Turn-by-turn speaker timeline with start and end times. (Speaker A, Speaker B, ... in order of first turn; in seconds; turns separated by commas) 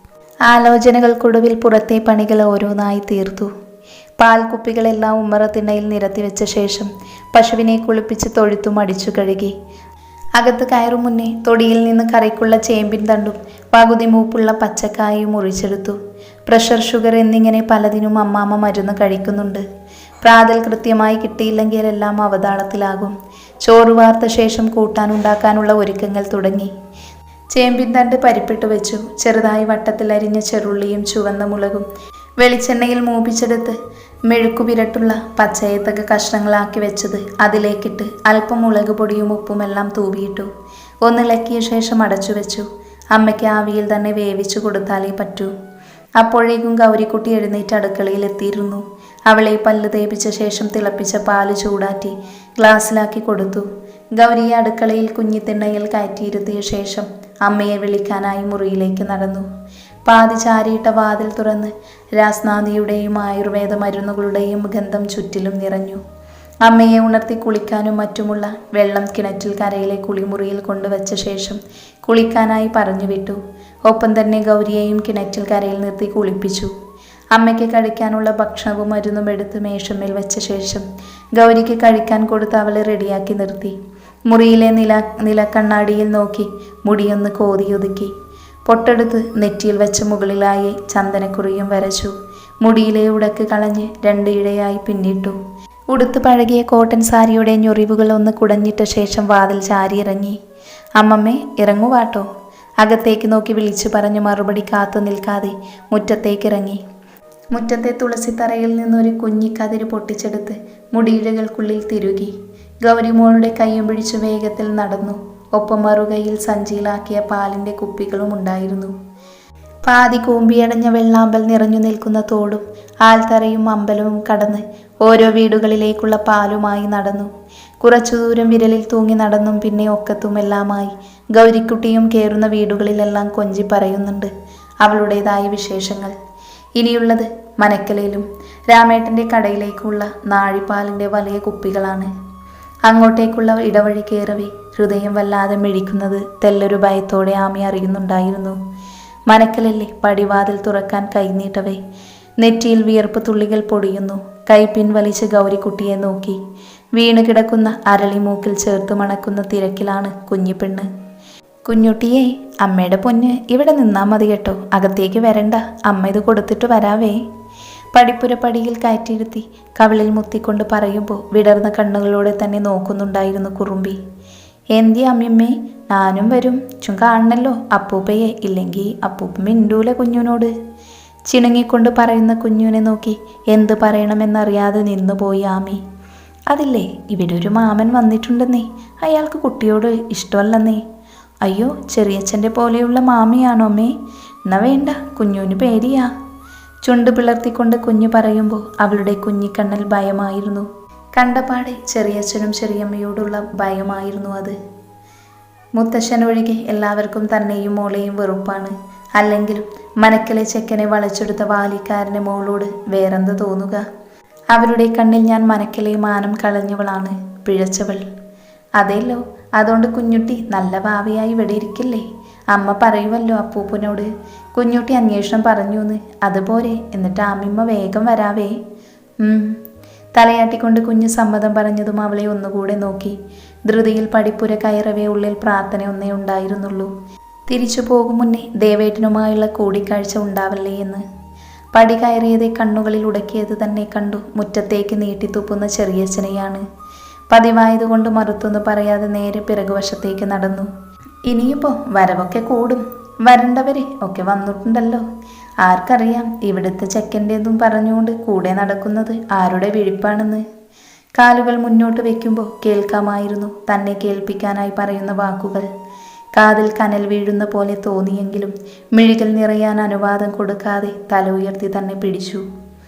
Speaker A: 0.5-3.5, Speaker A: 4.2-9.6, Speaker A: 10.4-19.6, Speaker A: 20.2-26.7, Speaker A: 27.5-31.9, Speaker A: 32.4-33.8, Speaker A: 34.3-40.5, Speaker A: 41.0-45.5, Speaker A: 46.2-59.5, Speaker A: 60.1-66.0, Speaker A: 66.7-76.7, Speaker A: 77.3-83.8, Speaker A: 84.3-88.1, Speaker A: 88.7-95.4, Speaker A: 95.9-100.4, Speaker A: 101.0-102.3, Speaker A: 102.8-106.8, Speaker A: 107.5-118.9, Speaker A: 119.8-127.3, Speaker A: 127.8-136.2, Speaker A: 136.8-142.1, Speaker A: 142.9-148.6, Speaker A: 149.3-151.8, Speaker A: 152.4-156.4, Speaker A: 156.9-160.9, Speaker A: 161.7-167.2, Speaker A: 167.9-174.0, Speaker A: 174.7-180.5, Speaker A: 181.3-185.8, Speaker A: 186.5-190.8, Speaker A: 191.4-193.9, Speaker A: 194.5-196.1, Speaker A: 196.8-204.6, Speaker A: 205.8-213.8, Speaker A: 214.5-218.0, Speaker A: 218.8-228.6, Speaker A: 229.2-229.6, Speaker A: 230.2-233.2, Speaker A: 233.7-236.9, Speaker A: 237.5-241.0, Speaker A: 241.8-246.6, Speaker A: 247.3-250.7, Speaker A: 251.2-255.1, Speaker A: 255.6-260.4, Speaker A: 261.2-265.7, Speaker A: 266.3-272.4